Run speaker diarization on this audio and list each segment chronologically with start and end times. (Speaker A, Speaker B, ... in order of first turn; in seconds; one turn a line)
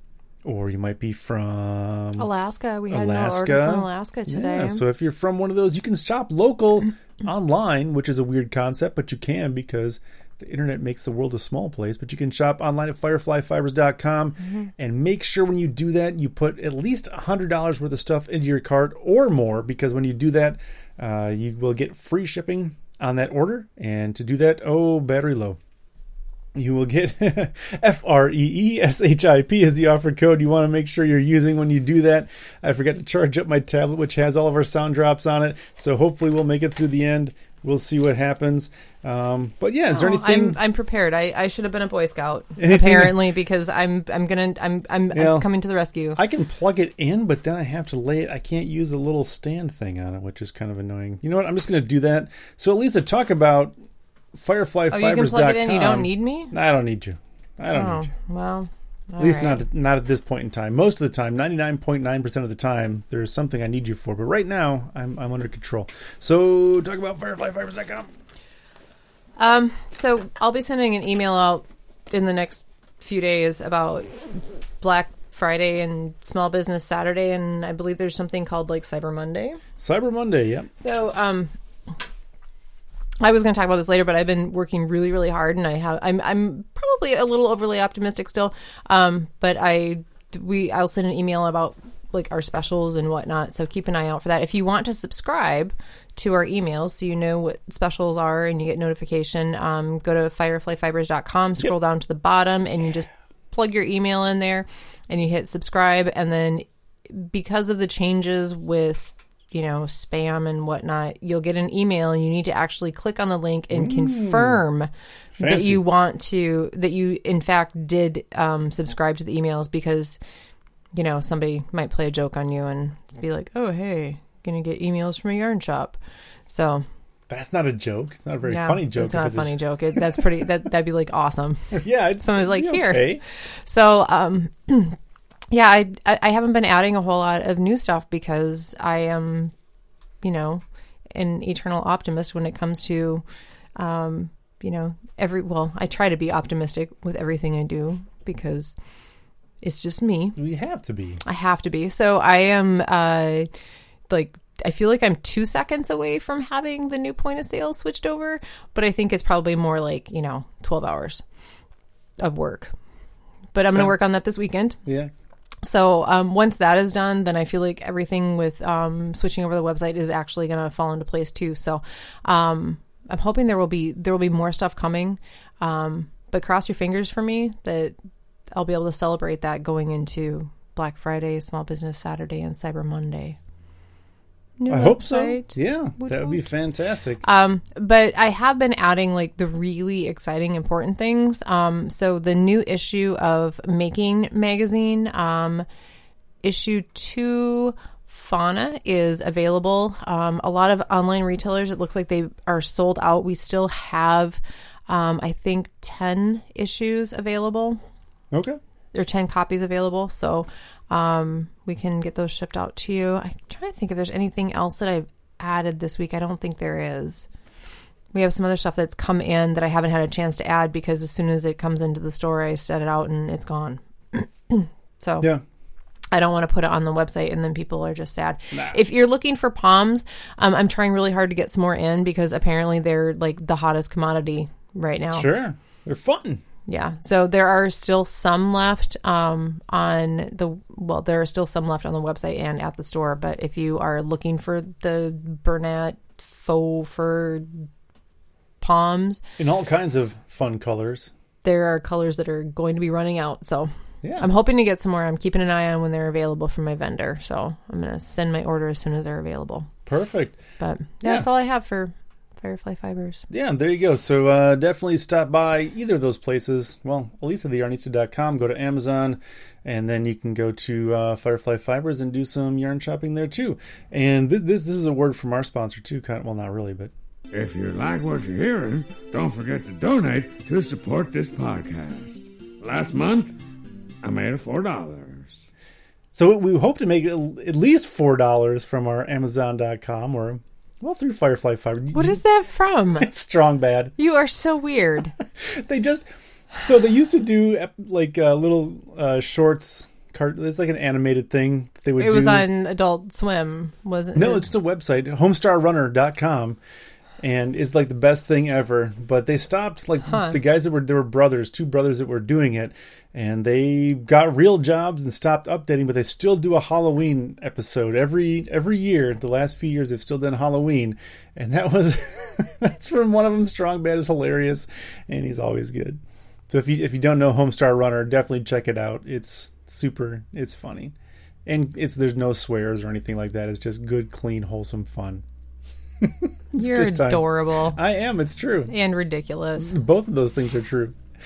Speaker A: 0.4-2.3
Speaker B: 2.2-4.8
Speaker A: 2.9-25.6
Speaker A: 26.5-40.6
Speaker B: 39.9-46.2
Speaker A: 42.6-43.2
Speaker A: 45.1-45.5
Speaker A: 46.1-53.7
Speaker A: 54.3-58.1
Speaker B: 54.9-56.5
Speaker B: 57.7-59.6
Speaker A: 59.2-68.1
Speaker B: 69.4-79.6
Speaker A: 79.8-80.7
Speaker B: 80.8-81.5
Speaker B: 83.2-120.2
Speaker A: 113.7-114.6
Speaker A: 115.4-115.9
Speaker B: 120.9-126.0
Speaker B: 126.5-126.8
Speaker A: 127.3-130.4
Speaker B: 128.5-135.0
Speaker A: 131.7-133.2
Speaker B: 135.5-139.5
Speaker B: 140.2-143.2
Speaker B: 143.8-148.7
Speaker B: 149.6-150.4
Speaker A: 150.3-151.2
Speaker B: 151.2-153.5
Speaker B: 154.1-161.2
Speaker B: 162.2-162.7
Speaker B: 163.5-164.8
Speaker A: 164.8-165.1
Speaker B: 165.6-177.9
Speaker B: 178.5-183.4
Speaker B: 184.6-186.4
Speaker A: 184.7-187.2
Speaker B: 187.2-195.7
Speaker B: 196.4-207.8
Speaker A: 208.3-208.6
Speaker B: 208.9-217.3
Speaker B: 218.1-225.3
Speaker B: 226.1-235.3
Speaker A: 228.5-228.8
Speaker A: 235.1-236.4
Speaker B: 236.7-247.7
Speaker B: 248.6-249.2
Speaker A: 249.4-251.1
Speaker B: 251.4-259.7
Speaker A: 254.0-254.3
Speaker A: 259.9-260.4
Speaker B: 260.6-263.2
Speaker A: 263.3-276.9
Speaker C: 277.3-283.4
Speaker C: 284.0-285.5
Speaker A: 286.1-292.2
Speaker B: 291.9-293.1
Speaker A: 293.0-293.9
Speaker B: 294.0-295.1
Speaker A: 295.4-302.5
Speaker B: 302.0-304.4
Speaker A: 304.1-306.6
Speaker A: 307.2-330.9
Speaker A: 331.4-335.2
Speaker A: 336.0-338.7
Speaker B: 336.5-337.8
Speaker B: 338.7-339.7
Speaker A: 339.6-340.9